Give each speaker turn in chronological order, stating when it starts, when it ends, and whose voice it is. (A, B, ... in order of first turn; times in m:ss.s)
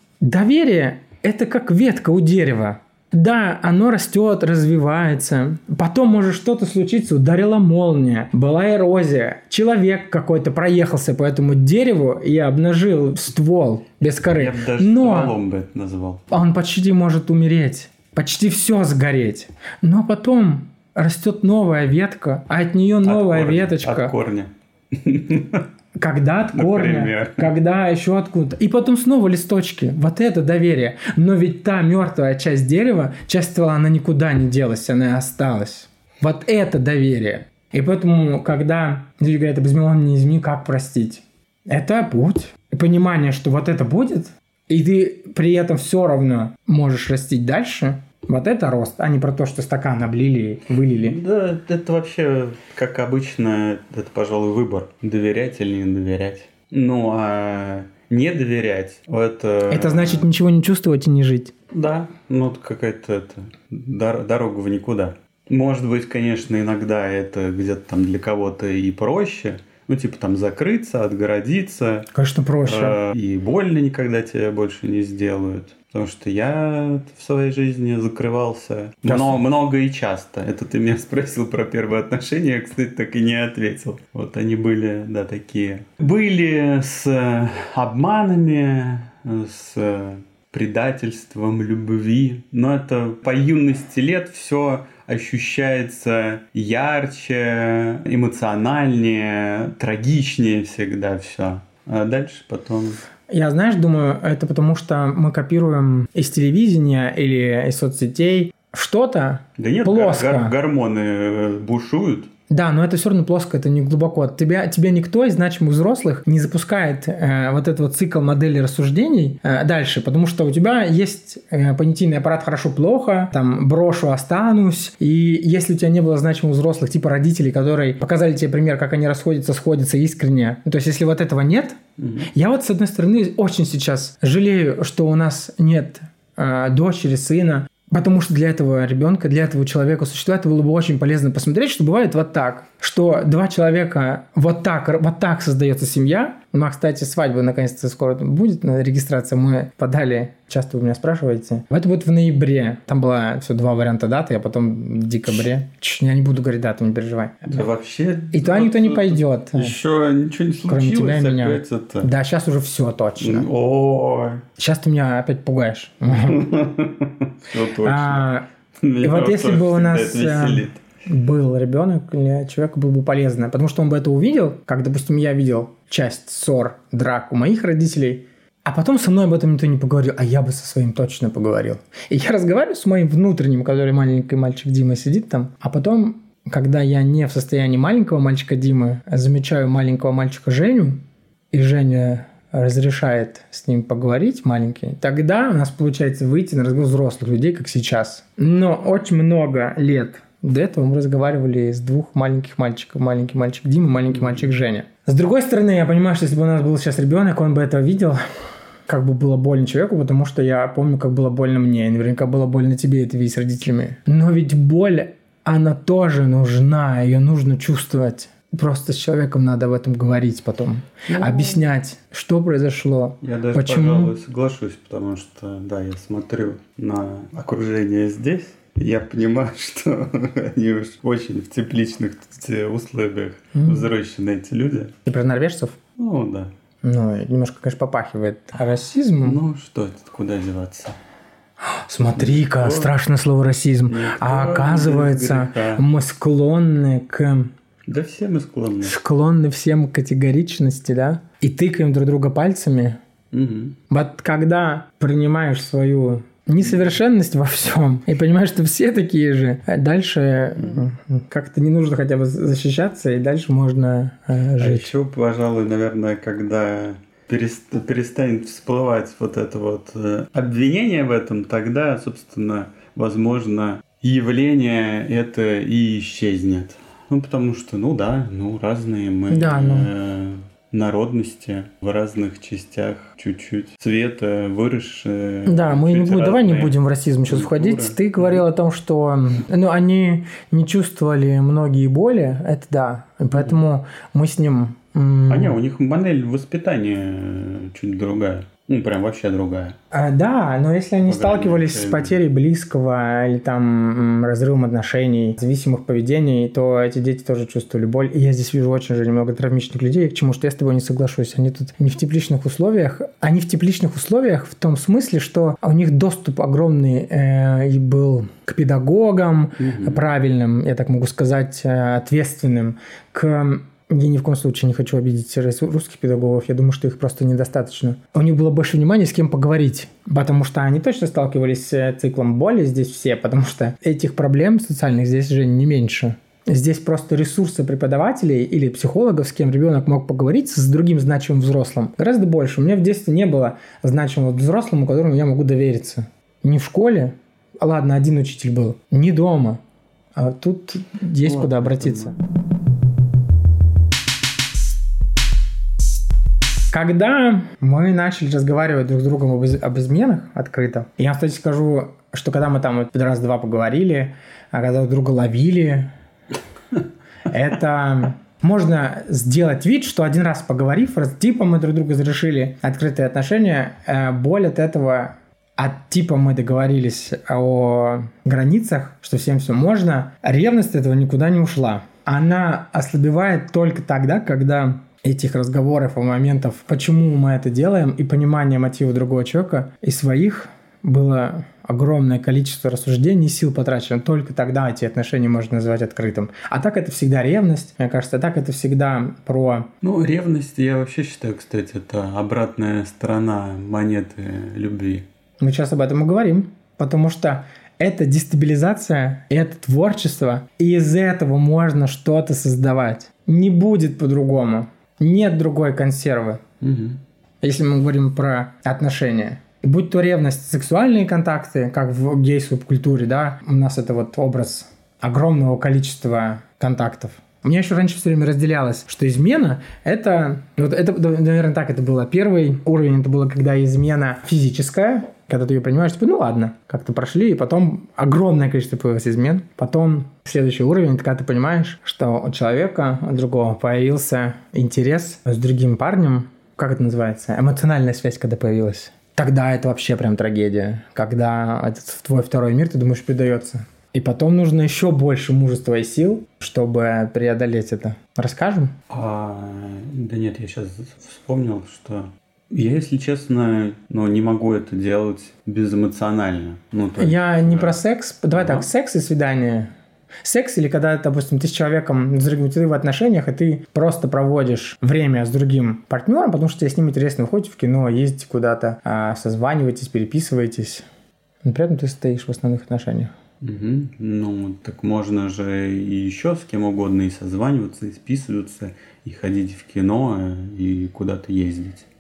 0:00.2-0:15.4 A
0:14.2-0:16.3 B
0:16.3-0:24.1 A
0:23.0-0:25.6 B
0:25.9-0:51.2 A
0:26.5-0:27.5 B
0:50.9-1:00.3 B
0:59.7-1:01.5 A
1:01.7-1:12.1 B
1:12.1-1:13.0 A
1:12.6-1:43.0 B
1:19.0-1:19.4 A
1:43.3-1:50.5 A
1:49.6-1:52.3 B
1:52.5-2:11.8 A
2:12.0-2:12.3 B
2:12.3-2:37.6 A
2:37.4-2:42.1 B
2:38.3-2:39.8 A
2:40.7-2:43.5 A
2:43.2-2:44.4 B
2:44.6-2:46.5 A
2:46.1-2:48.3 B
2:47.8-2:48.4 A
2:48.8-2:50.8 B
2:49.0-3:28.2 A
3:24.1-3:24.5 B
3:28.9-3:44.1 A
3:41.1-3:41.6 B
3:43.2-3:54.9 B
3:53.5-3:53.9 A
3:55.0-3:55.8 A
3:56.0-3:56.5 B
3:56.8-3:59.4 A
3:59.2-4:01.0 B
4:01.6-4:07.5 A
4:02.1-4:02.9 B
4:03.9-4:05.8 B
4:07.9-4:09.0 B
4:08.8-4:13.0 A
4:13.3-4:13.8 B
4:13.9-4:24.9 A
4:16.6-4:16.9 B
4:24.6-4:46.7 B
4:39.3-4:39.9 A
4:45.4-4:55.6 A
4:47.3-4:48.4 B
4:55.3-4:59.8 B
4:59.9-5:49.6 A
5:01.0-5:02.2 B
5:19.6-5:20.0 B
5:50.1-5:52.1 A
5:51.2-5:52.2 B
5:56.7-6:05.9 A
6:07.3-6:39.7 A
6:39.8-6:45.0 B
6:45.4-6:56.4 A
6:56.6-6:57.0 B
6:57.4-7:38.7 A
7:38.9-7:47.8 B
7:47.0-7:49.7 A
7:48.3-7:48.7 B
7:50.2-8:00.8 A
8:01.4-8:03.1 A
8:03.4-8:11.9 B